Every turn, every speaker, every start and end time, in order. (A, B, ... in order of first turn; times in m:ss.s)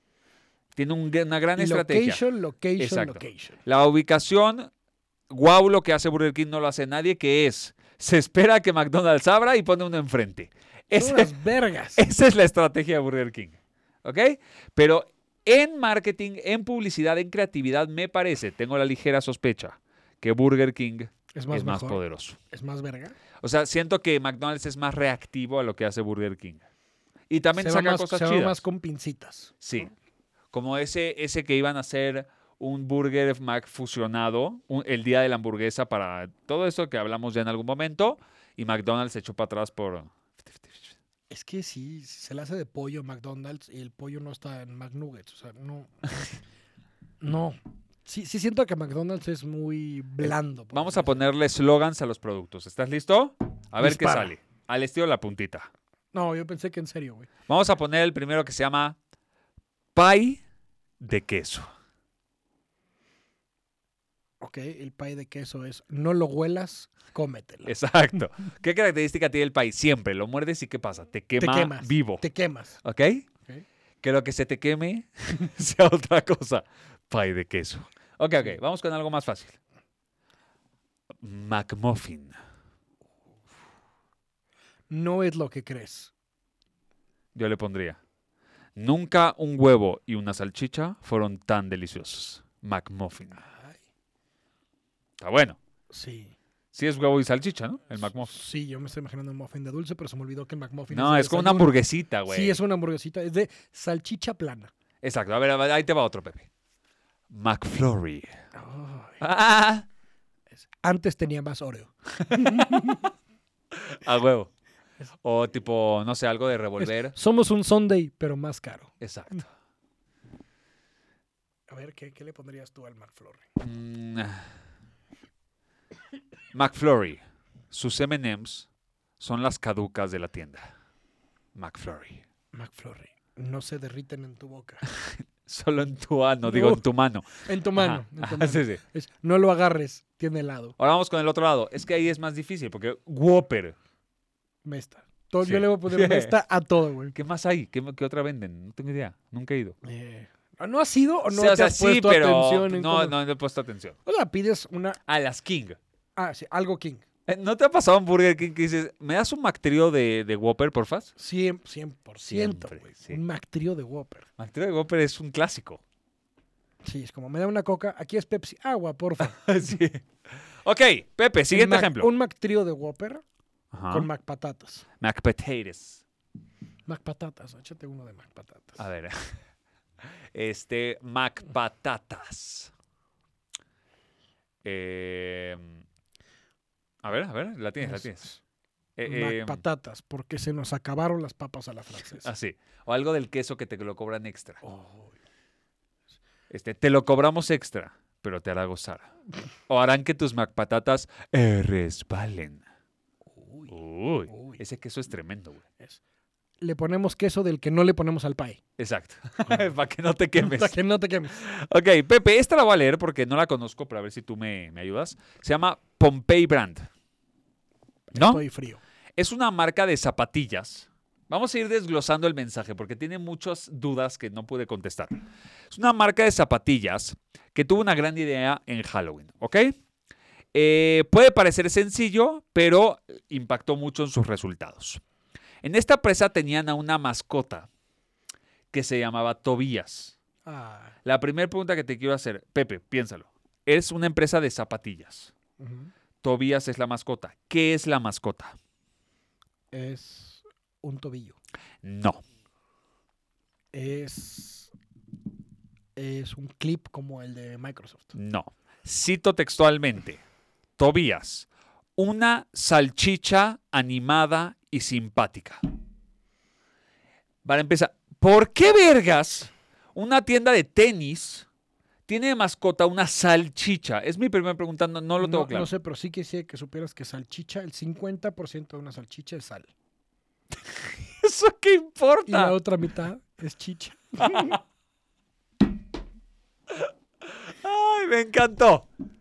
0:00.8-0:02.2 A
0:01.6-0:03.6 B
0:02.8-0:04.7 A
0:05.3-0:11.4 A
0:10.9-0:12.0 B
0:12.0-0:22.4 A
0:21.3-0:23.2 B
0:23.4-0:26.6 A
0:27.3-0:28.6 A
0:27.6-0:29.6 B
0:29.6-0:29.9 A
0:30.5-0:40.9 A
0:41.3-0:46.3 B
0:47.2-0:51.2 B
0:50.2-0:55.7 A
0:53.8-0:54.3 B
0:56.1-0:57.3 B
0:57.5-0:59.0 A
0:59.9-1:00.4 A
1:01.0-1:01.7 A
1:04.4-1:07.7 B
1:07.6-1:12.2 A
1:11.4-1:12.8 B
1:12.8-1:13.2 A
1:14.0-1:19.6 A
1:21.2-1:22.4 A
1:24.9-1:26.1 B
1:27.3-1:28.0 A
1:28.8-1:33.4 A
1:33.4-1:33.8 B
1:35.2-1:35.6 A
1:35.9-1:36.3 B
1:36.7-1:38.3 A
1:38.1-1:41.8 B
1:40.9-1:42.6 A
1:42.3-1:44.7 B
1:45.0-1:46.5 A
1:47.3-1:48.3 A
1:48.5-1:49.2 B
1:49.2-1:49.8 A
1:50.8-1:53.1 B
1:52.2-1:53.0 A
1:53.7-1:54.5 A
1:55.2-1:57.2 A
1:56.8-1:58.9 B
1:59.0-1:59.5 A
2:01.7-2:03.4 B
2:03.6-2:04.5 A
2:06.5-2:08.7 A
2:09.2-2:10.7 A
2:11.5-2:12.2 A
2:12.5-2:14.8 B
2:14.8-2:18.8 A
2:16.4-2:16.8 B
2:17.4-2:20.8 B
2:20.8-2:23.8 A
2:24.6-2:27.1 B
2:25.4-2:26.4 A
2:27.1-2:29.8 A
2:29.8-2:33.2 B
2:31.3-2:34.0 A
2:34.0-2:35.0 B
2:35.1-2:35.8 A
2:36.2-2:37.0 B
2:37.3-2:41.1 A
2:41.2-2:44.2 B
2:42.3-2:43.2 A
2:44.4-2:45.8 A
2:46.8-2:49.8 B
2:49.2-2:50.0 A
2:50.6-2:52.1 A
2:51.5-2:53.2 B
2:53.7-2:54.1 A
2:53.9-2:54.8 B
2:55.0-2:56.0 A
2:56.8-2:58.8 B
2:58.8-2:59.4 A
3:00.3-3:02.7 A
3:04.6-3:05.8 A
3:07.0-3:08.4 A
3:07.8-3:08.3 B
3:09.0-3:09.6 A
3:09.0-3:12.3 B
3:12.2-3:14.6 A
3:14.6-3:15.1 B
3:16.5-3:19.1 A
3:19.7-3:22.6 A
3:23.3-3:23.7 B
3:23.7-3:25.6 A
3:24.3-3:24.6 B
3:26.6-3:28.6 B
3:28.8-3:30.8 A
3:30.4-3:31.4 B
3:31.3-3:36.9 A
3:38.1-3:38.8 B
3:38.1-3:38.4 A
3:39.2-3:45.2 A
3:45.7-3:49.8 A
3:50.5-3:55.0 A
3:55.6-3:57.7 A
3:58.7-4:00.2 A
4:00.4-4:00.9 B
4:01.0-4:05.3 A
4:05.6-4:05.9 B
4:06.2-4:08.6 A
4:09.7-4:11.4 B
4:11.8-4:12.2 A
4:13.7-4:14.7 B
4:16.0-4:18.1 B
4:18.1-4:20.2 A
4:20.8-4:25.6 A
4:27.4-4:31.5 A
4:32.1-4:35.7 A
4:35.2-4:39.7 B
4:40.7-4:42.6 A
4:42.2-4:44.6 B
4:44.2-4:44.6 A
4:46.7-4:48.9 A